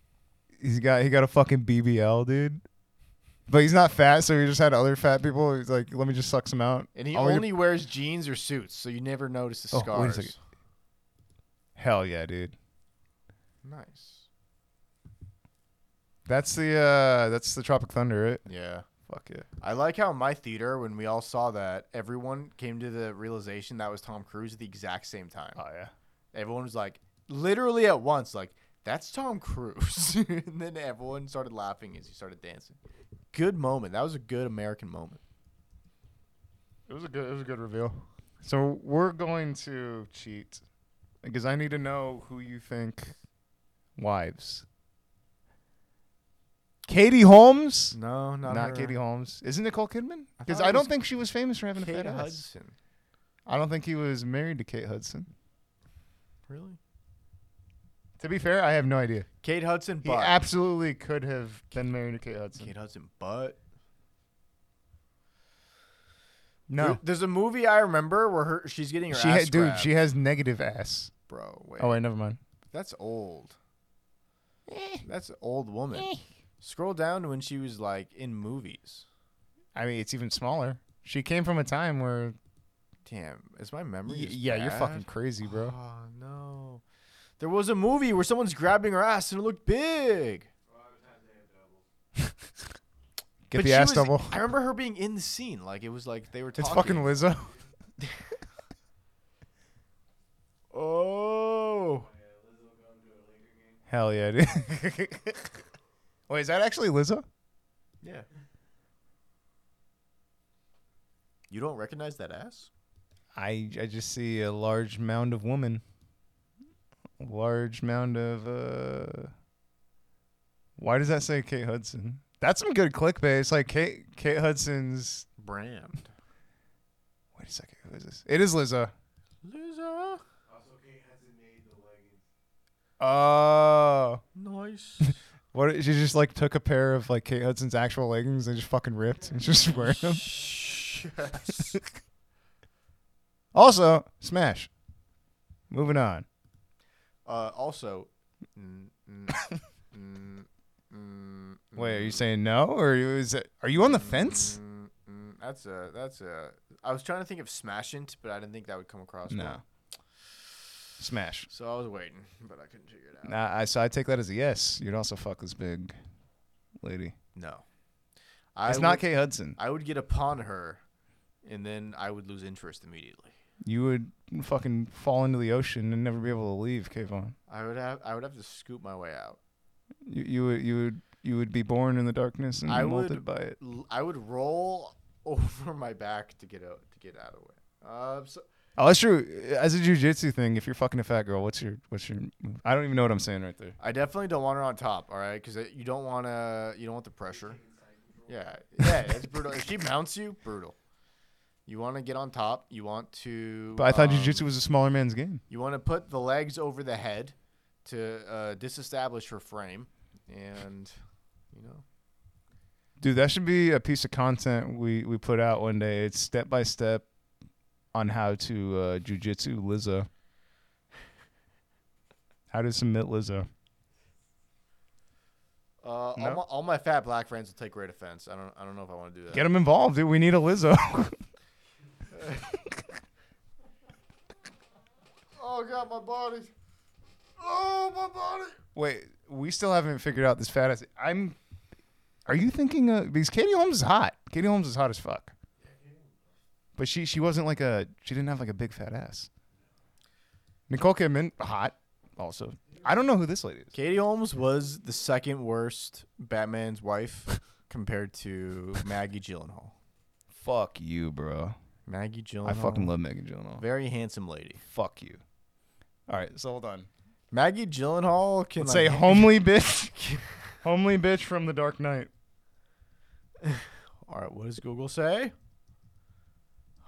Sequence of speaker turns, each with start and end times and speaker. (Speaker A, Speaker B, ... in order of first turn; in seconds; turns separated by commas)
Speaker A: 0.6-2.6, Speaker A: 3.5-7.5, Speaker B: 6.9-10.4, Speaker A: 9.7-10.3, Speaker A: 11.8-12.6, Speaker B: 13.6-14.3, Speaker A: 16.2-18.4, Speaker B: 18.4-18.9, Speaker A: 19.0-19.5, Speaker B: 19.6-25.6, Speaker A: 25.6-25.9, Speaker B: 26.3-32.8, Speaker B: 33.3-35.2, Speaker A: 36.9-40.6, Speaker A: 41.2-43.1, Speaker A: 44.0-44.6, Speaker A: 46.9-52.4, Speaker B: 47.9-49.0, Speaker B: 50.4-50.9, Speaker B: 51.8-52.7, Speaker A: 53.5-55.3, Speaker B: 56.5-56.8, Speaker A: 58.2-59.3, Speaker B: 59.4-60.4, Speaker A: 60.0-62.7, Speaker B: 62.6-63.6, Speaker A: 66.7-67.0, Speaker B: 66.8-69.9, Speaker A: 69.1-71.1, Speaker B: 71.3-72.0, Speaker A: 71.8-72.4, Speaker B: 72.7-73.6, Speaker A: 74.7-75.0, Speaker B: 75.0-79.0, Speaker A: 75.9-76.2, Speaker A: 79.7-82.4, Speaker B: 83.0-86.8, Speaker A: 84.1-85.7, Speaker B: 87.4-90.5, Speaker C: 90.7-91.8, Speaker A: 93.5-94.4, Speaker B: 93.5-97.1, Speaker A: 96.5-97.5, Speaker C: 97.0-97.7, Speaker B: 100.7-102.1, Speaker C: 102.0-103.8, Speaker A: 103.9-105.5, Speaker A: 106.3-107.2, Speaker B: 111.5-112.7, Speaker A: 113.3-115.8, Speaker A: 117.2-119.3, Speaker A: 120.8-125.3, Speaker B: 125.4-126.1, Speaker A: 127.3-128.9, Speaker B: 129.4-130.2, Speaker C: 130.5-132.2, Speaker A: 133.0-134.2, Speaker B: 134.3-135.2, Speaker A: 135.5-140.3, Speaker B: 139.8-141.8, Speaker A: 143.5-144.7, Speaker A: 145.7-146.2, Speaker B: 147.2-152.2, Speaker A: 151.8-154.6, Speaker B: 153.8-159.6, Speaker A: 159.3-159.6, Speaker A: 161.0-161.5, Speaker B: 161.5-163.4, Speaker A: 163.2-165.9, Speaker A: 166.8-167.1, Speaker B: 167.3-167.6, Speaker B: 168.5-169.0, Speaker A: 168.7-169.6, Speaker B: 169.6-170.8, Speaker B: 171.4-173.3, Speaker A: 173.6-177.3, Speaker B: 177.5-179.4, Speaker A: 180.0-183.6, Speaker B: 182.7-188.4, Speaker A: 188.8-193.8, Speaker B: 193.8-197.6, Speaker C: 197.2-198.6, Speaker B: 198.3-200.8, Speaker B: 201.7-204.5, Speaker A: 203.8-205.4, Speaker B: 205.5-210.9, Speaker B: 211.5-211.8, Speaker A: 213.0-217.1, Speaker A: 217.9-220.1, Speaker A: 222.5-223.5, Speaker B: 225.8-229.5, Speaker A: 226.2-226.4, Speaker A: 229.3-231.2, Speaker A: 232.5-232.8, Speaker B: 235.4-236.5, Speaker B: 237.4-238.6, Speaker A: 238.7-241.4, Speaker A: 242.2-245.3, Speaker C: 245.6-246.4, Speaker A: 246.8-249.3, Speaker A: 250.7-253.7, Speaker B: 253.7-259.7, Speaker A: 260.3-261.6, Speaker B: 261.9-262.9, Speaker A: 262.4-263.6, Speaker B: 263.6-264.6, Speaker A: 264.6-265.2, Speaker A: 266.1-266.9, Speaker B: 267.3-269.4, Speaker A: 268.6-269.9, Speaker B: 269.9-270.4, Speaker A: 270.6-272.1, Speaker B: 273.4-275.3